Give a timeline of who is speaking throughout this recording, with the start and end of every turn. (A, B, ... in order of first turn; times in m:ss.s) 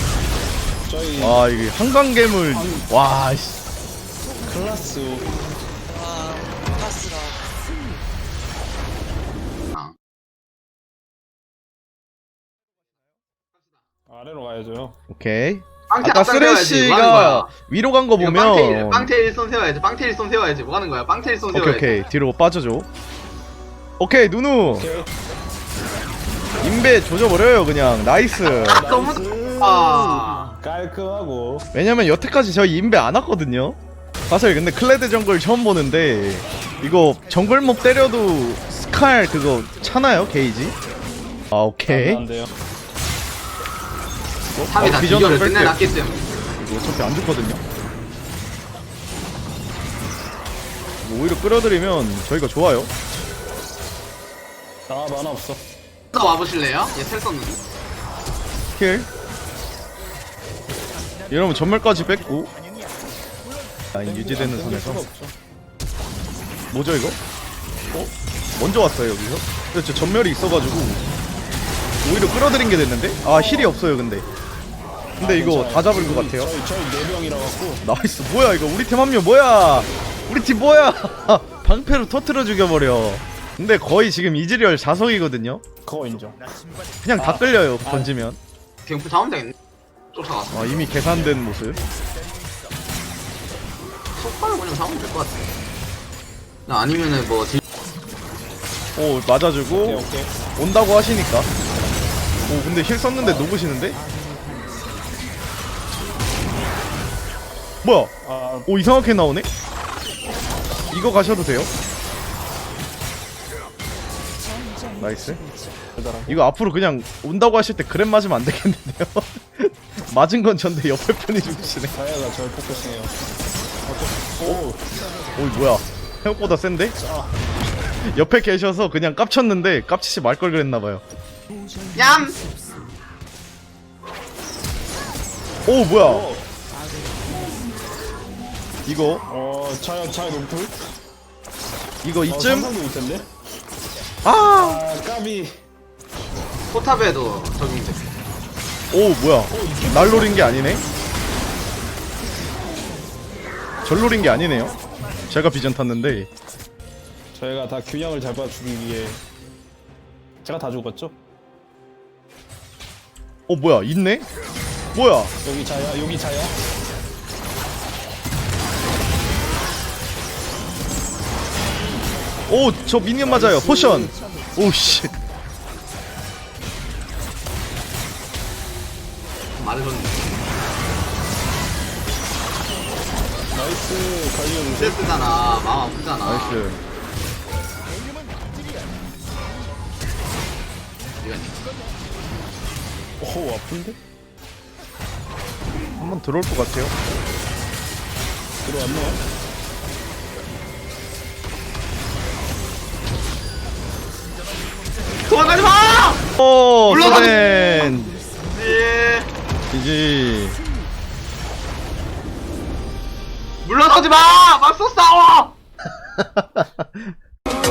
0:00.8-0:01.4 A
0:01.2-0:03.6 B
0:02.5-0:02.9 A
0:04.4-0:05.3 A
0:05.9-0:07.4 C
0:14.1-0:15.0 A
0:15.1-0:19.1 B
0:16.0-0:17.5 D
0:18.2-0:22.0 D
0:21.5-0:22.9 B
0:24.0-0:24.9 B
0:24.7-0:25.1 A
0:26.6-0:28.9 B
0:28.4-0:31.6 A
0:28.7-0:30.6 D
0:31.7-0:33.8 B
0:34.3-0:40.8 B
0:41.5-0:42.2 B
0:41.8-0:42.5 A
0:44.5-0:45.8 B
0:44.7-0:46.2 D
0:46.6-0:47.6 B
0:51.0-0:52.9 B
0:54.9-0:55.6 A
0:56.1-0:57.6 D
0:56.4-0:57.0 C
0:58.8-0:59.1 B
1:01.3-1:02.5 B
1:03.9-1:05.0 B
1:04.0-1:05.3 A
1:06.7-1:07.2 B
1:07.9-1:11.0 B
1:12.0-1:14.2 B
1:13.2-1:13.8 A
1:15.2-1:17.8 A
1:15.2-1:16.5 B
1:17.8-1:25.6 B
1:25.8-1:26.4 A
1:27.0-1:28.4 B
1:27.1-1:28.2 A
1:28.9-1:29.5 D
1:30.1-1:31.1 D
1:30.5-1:31.8 B
1:34.2-1:35.4 D
1:36.7-1:37.6 D
1:39.0-1:40.0 B
1:39.7-1:40.3 A
1:40.6-1:41.5 B
1:42.5-1:44.0 B
1:43.2-1:43.5 A
1:47.8-1:48.1 B
1:48.2-1:48.7 A
1:48.7-1:49.5 B
1:50.9-1:51.7 B
1:55.0-1:55.4 B
1:56.0-1:56.4 A
1:56.3-2:01.9 B
2:01.9-2:03.1 A
2:03.8-2:04.8 A
2:05.4-2:07.0 B
2:07.0-2:07.4 A
2:08.0-2:11.0 B
2:12.0-2:12.4 D
2:15.6-2:16.3 B
2:16.0-2:16.5 A
2:18.8-2:19.2 B
2:19.2-2:20.7 A
2:22.0-2:22.7 B
2:22.3-2:23.3 A
2:24.2-2:24.8 B
2:24.5-2:25.6 A
2:26.7-2:28.0 D
2:28.9-2:30.8 B
2:29.5-2:30.8 A
2:33.8-2:34.7 B
2:35.3-2:36.3 B
2:37.3-2:39.2 A
2:40.4-2:41.1 A
2:43.5-2:44.3 B
2:44.9-2:45.3 B
2:45.4-2:46.6 A
2:52.5-2:55.2 B
2:53.2-2:54.1 A
2:59.6-3:00.2 D
3:03.5-3:05.2 A
3:04.7-3:06.6 D
3:06.2-3:06.8 B
3:11.2-3:11.6 D
3:13.2-3:14.0 A
3:16.0-3:16.9 B
3:18.6-3:19.2 A
3:25.3-3:26.2 D
3:26.4-3:28.2 B
3:26.9-3:27.3 D
3:28.5-3:29.3 D
3:29.7-3:30.6 B
3:33.6-3:35.5 D
3:36.2-3:37.1 B